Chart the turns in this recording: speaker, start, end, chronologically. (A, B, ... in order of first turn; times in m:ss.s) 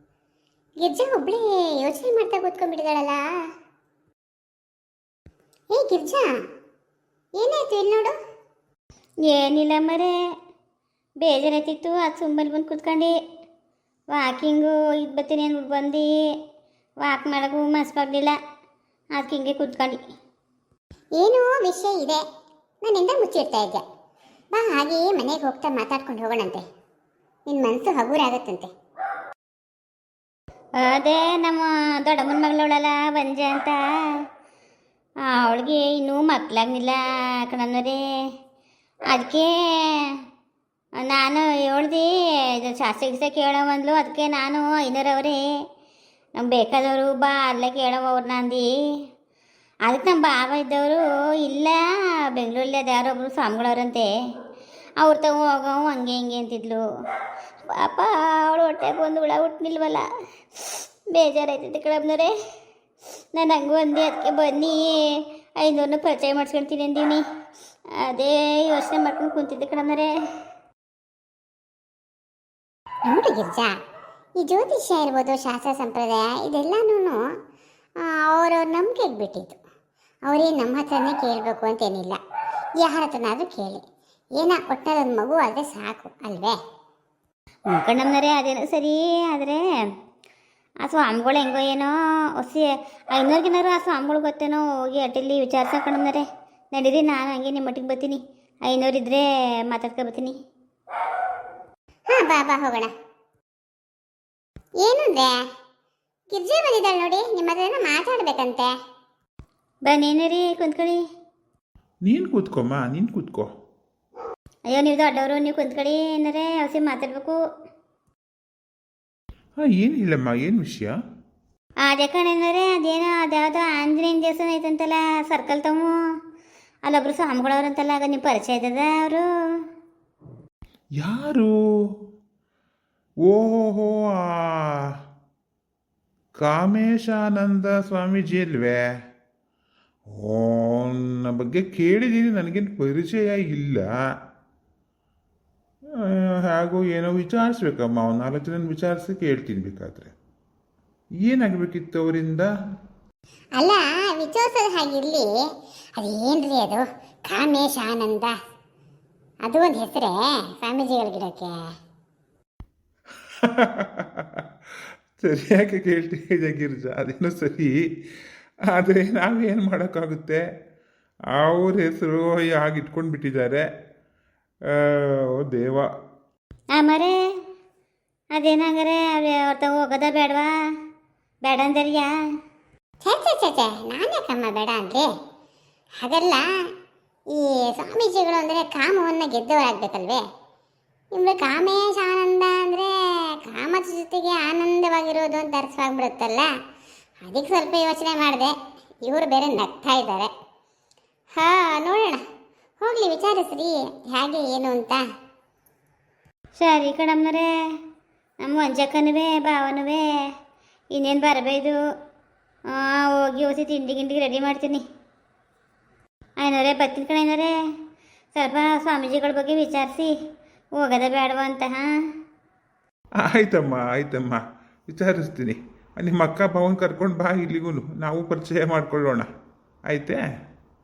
0:00.8-0:03.2 A
0:05.7-0:06.3 A
0:07.4-0:08.1 A
0:09.2-0:10.1 B
0:11.2-0:13.1 B
0:14.1-0:16.1 B
0:17.0-0:18.4 B
0:19.2-0:20.0 B
0:21.2-0:22.2 A
0:22.8-0:23.8 A
0:24.5-0:26.6 A
0:27.5-0:28.7 A
0:30.8-0:33.8 B
0:35.3-0:38.0 B
0:39.1-0:40.1 B
0:41.0-0:42.1 B
0:42.6-0:45.4 B
0:46.4-0:48.7 B
0:49.9-0:51.8 B
0:52.3-0:54.1 B
0:55.0-0:56.8 B
0:57.7-1:00.0 B
1:00.6-1:02.3 B
1:03.3-1:07.2 B
1:08.0-1:10.1 B
1:13.0-1:13.7 A
1:14.4-1:17.2 A
1:18.0-1:19.6 A
1:20.3-1:22.2 A
1:22.8-1:23.8 A
1:24.4-1:26.6 A
1:27.7-1:29.6 B
1:30.8-1:40.4 B
1:42.1-1:42.9 A
1:44.8-1:45.3 A
1:46.3-1:48.7 A
1:49.8-1:51.0 B
1:52.0-1:53.5 C
1:54.7-1:57.4 B
1:59.6-2:00.9 C
2:01.8-2:05.9 B
2:06.8-2:09.2 B
2:11.0-2:11.5 C
2:13.2-2:14.9 C
2:16.4-2:18.8 C
2:20.1-2:23.8 C
2:26.0-2:30.1 C
2:31.3-2:32.5 C
2:33.6-2:35.3 A
2:36.0-2:38.3 A
2:39.4-2:41.6 A
2:43.4-2:44.4 C
2:45.2-2:47.7 C
2:48.7-2:50.4 C
2:51.4-2:53.7 C
2:54.7-2:55.9 C
2:56.7-2:57.2 B
2:58.3-3:00.5 B
3:01.4-3:02.1 B
3:03.0-3:05.1 A
3:06.0-3:06.4 A
3:07.3-3:10.2 A
3:11.1-3:16.5 A
3:17.2-3:20.3 A
3:21.3-3:22.2 A
3:22.8-3:25.0 A
3:26.6-3:27.5 B
3:28.4-3:30.0 B
3:30.9-3:31.8 B
3:32.7-3:34.8 B
3:36.4-3:37.5 B
3:38.3-3:40.1 B
3:40.8-3:41.9 B
3:43.3-3:49.3 C
3:49.9-3:50.2 C